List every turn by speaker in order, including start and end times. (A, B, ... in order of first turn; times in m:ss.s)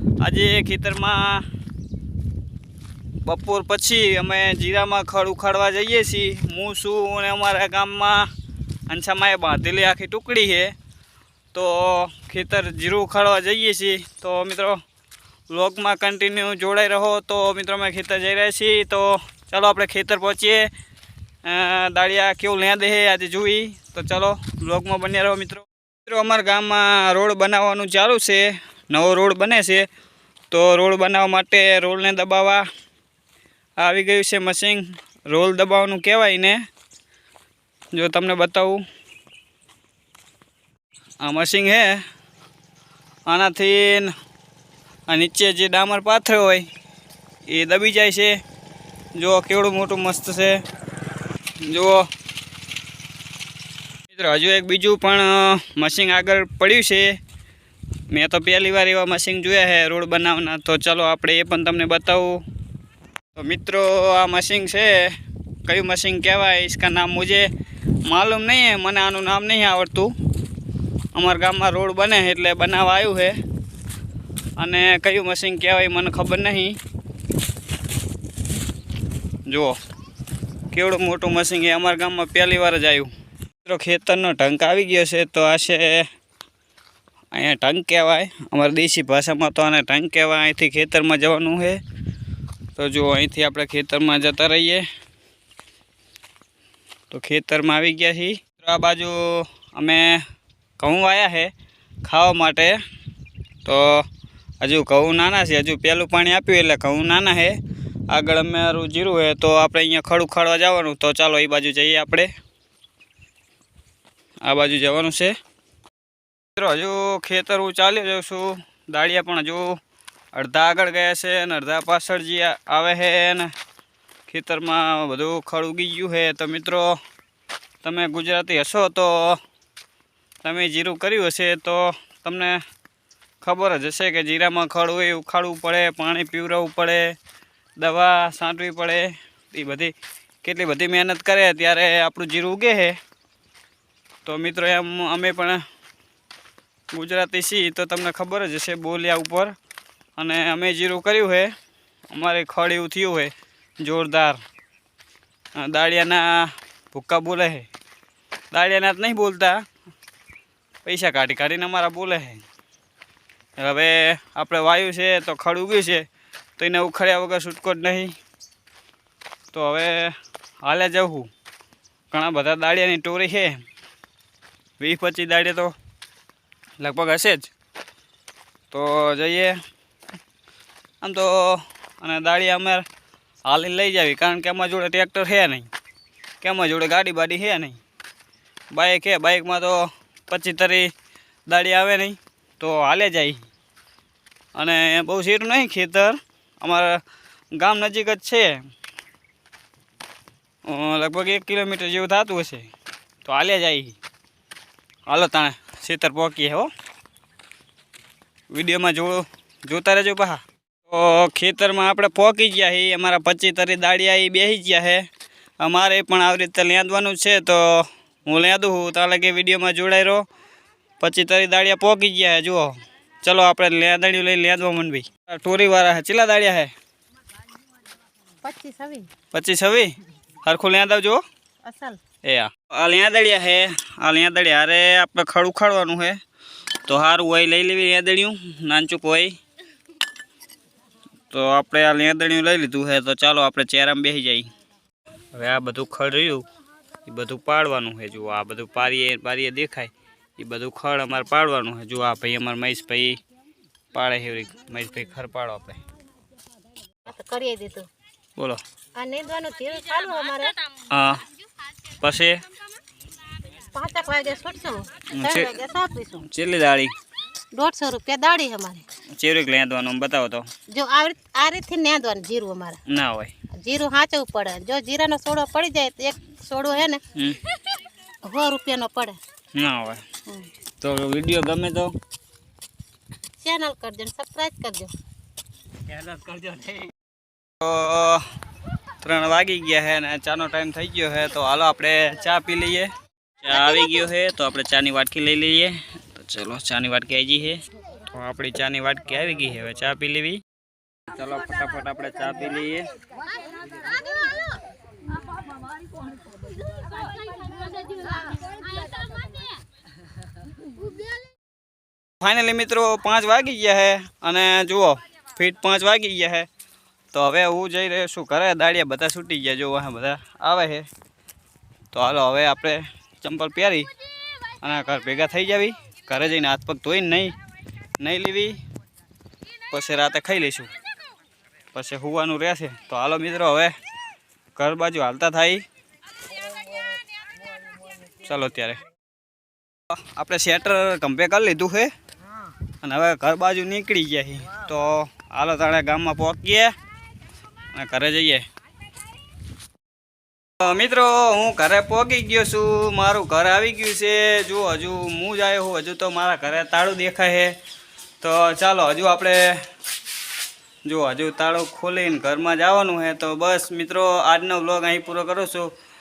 0:00.2-0:01.4 A
0:03.2-0:08.3 A
0:08.9-0:10.7 A
0:11.5-0:14.8 A
0:15.5-0:20.7 A
0:21.4-0:29.9 A
0:30.5-0:32.7 A
0:33.8-0:36.6 A
0:37.9-0:38.8 A
0:41.2-0:42.0 A
0:43.3-0:44.1 A
0:45.1-0:46.7 A
0:47.5-0:48.4 A
0:49.2-0:50.6 A
0:51.6-0:52.1 A
0:54.1-0:57.2 A
0:58.1-1:02.4 A
1:03.3-1:05.1 A
1:05.7-1:07.5 A
1:08.1-1:10.1 A
1:11.2-1:13.4 A
1:14.6-1:16.8 A
1:19.5-1:19.8 A
1:20.7-1:23.1 A
1:23.6-1:26.1 A
1:27.3-1:31.8 A
1:32.8-1:34.8 A
1:37.1-1:40.2 A
1:40.8-1:41.5 A
1:42.0-1:42.8 A
1:43.6-1:44.1 A
1:44.6-1:47.6 A
1:48.1-1:52.3 A
1:54.4-1:55.3 A
1:56.6-1:59.8 A
2:00.3-2:03.5 A
2:04.3-2:07.0 A
2:07.8-2:09.4 A
2:10.4-2:12.6 A
2:13.4-2:17.2 A
2:17.8-2:23.0 A
2:24.2-2:25.6 A
2:26.9-2:29.6 A
2:30.2-2:31.5 A
2:32.1-2:34.4 A
2:35.6-2:37.7 A
2:38.5-2:39.6 A
2:40.8-2:42.4 A
2:43.6-2:46.0 A
2:46.6-2:48.1 A
2:49.5-2:51.3 A
2:52.1-2:53.6 A
2:54.8-2:55.7 A
2:56.8-2:57.5 A
2:58.7-2:59.6 A
3:01.0-3:02.8 A
3:03.4-3:05.7 A
3:06.4-3:07.8 A
3:08.7-3:10.9 A
3:11.5-3:13.4 A
3:14.6-3:17.0 A
3:17.5-3:18.6 A
3:20.7-3:22.7 A
3:23.2-3:24.0 A
3:25.1-3:26.7 A
3:28.5-3:35.1 A
3:35.6-3:40.3 A
3:41.0-3:46.7 A
3:48.4-3:49.1 B
3:49.3-3:51.2 A
3:51.6-3:52.0 B
3:52.2-3:56.2 A
3:56.9-3:59.4 A
4:01.3-4:04.5 A
4:05.3-4:06.4 A
4:07.0-4:13.2 A
4:13.9-4:15.8 A
4:17.1-4:17.9 B
4:19.0-4:20.7 B
4:20.9-4:21.2 A
4:22.0-4:22.4 A
4:23.6-4:26.3 B
4:25.1-4:25.6 A
4:26.2-4:26.9 A
4:27.5-4:28.8 B
4:29.1-4:30.5 A
4:30.7-4:32.8 B
4:32.9-4:33.3 A
4:33.5-4:37.0 B
4:37.2-4:37.4 A
4:38.2-4:39.2 B
4:39.5-4:40.0 A
4:40.8-4:41.9 A
4:43.4-4:44.9 B
4:45.9-4:46.9 A
4:47.6-4:48.2 A
4:49.0-4:52.9 A
4:53.4-5:00.4 A
4:53.5-4:54.0 B
5:01.1-5:02.9 A
5:12.2-5:16.5 A
5:17.1-5:20.9 A
5:21.9-5:23.9 A
5:24.6-5:27.4 A
5:28.0-5:28.6 A
5:29.7-5:30.7 A
5:31.7-5:33.8 A
5:34.6-5:35.6 A
5:38.2-5:38.8 A
5:39.9-5:41.9 A
5:42.8-5:46.8 A
5:47.7-5:48.4 A
5:50.6-5:57.6 A
5:58.2-5:59.6 A
6:00.8-6:05.7 A